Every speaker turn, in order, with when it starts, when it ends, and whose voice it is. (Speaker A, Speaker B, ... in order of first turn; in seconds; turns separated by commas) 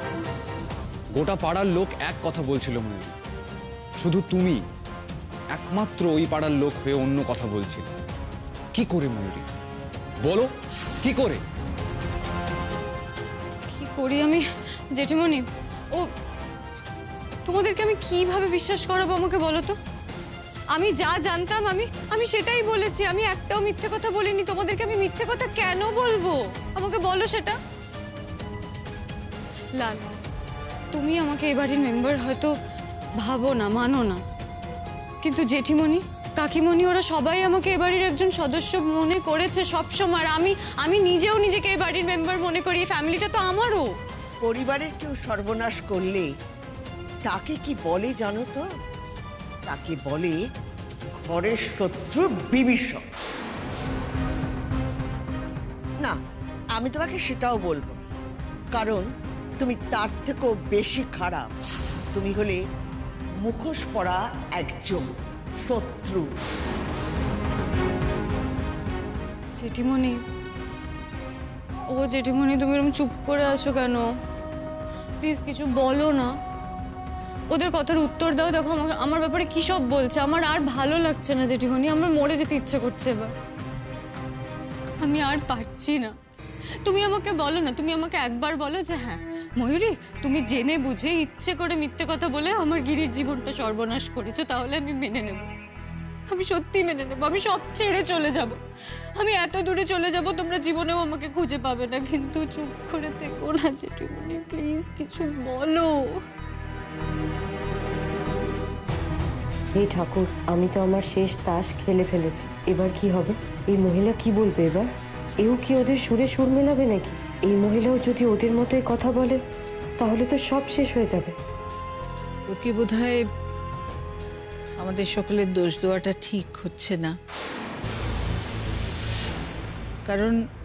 Speaker A: 1.1-3.1, Speaker A: 4.0-4.6, Speaker A: 5.5-7.9, Speaker A: 8.7-9.4, Speaker A: 10.2-10.5, Speaker A: 11.0-11.4, Speaker B: 13.7-14.4, Speaker B: 14.9-16.1, Speaker B: 17.4-19.7, Speaker B: 20.7-27.6, Speaker B: 29.8-30.1, Speaker B: 30.9-32.5, Speaker B: 33.2-34.2, Speaker B: 35.2-43.8, Speaker C: 44.4-46.3, Speaker C: 47.2-48.6, Speaker C: 49.6-50.4, Speaker C: 51.2-53.1, Speaker C: 56.7-58.1, Speaker C: 58.7-59.1, Speaker C: 59.6-61.5, Speaker C: 62.1-62.6, Speaker C: 63.4-66.2, Speaker B: 69.5-70.2, Speaker B: 71.9-74.0, Speaker B: 75.2-76.3, Speaker B: 77.5-83.3, Speaker B: 85.0-86.1, Speaker B: 86.8-95.5, Speaker B: 96.3-98.6, Speaker B: 99.2-106.2, Speaker D: 109.7-114.9, Speaker D: 115.4-119.4, Speaker D: 120.0-121.4, Speaker E: 122.5-123.2, Speaker E: 124.8-127.1, Speaker E: 130.1-130.3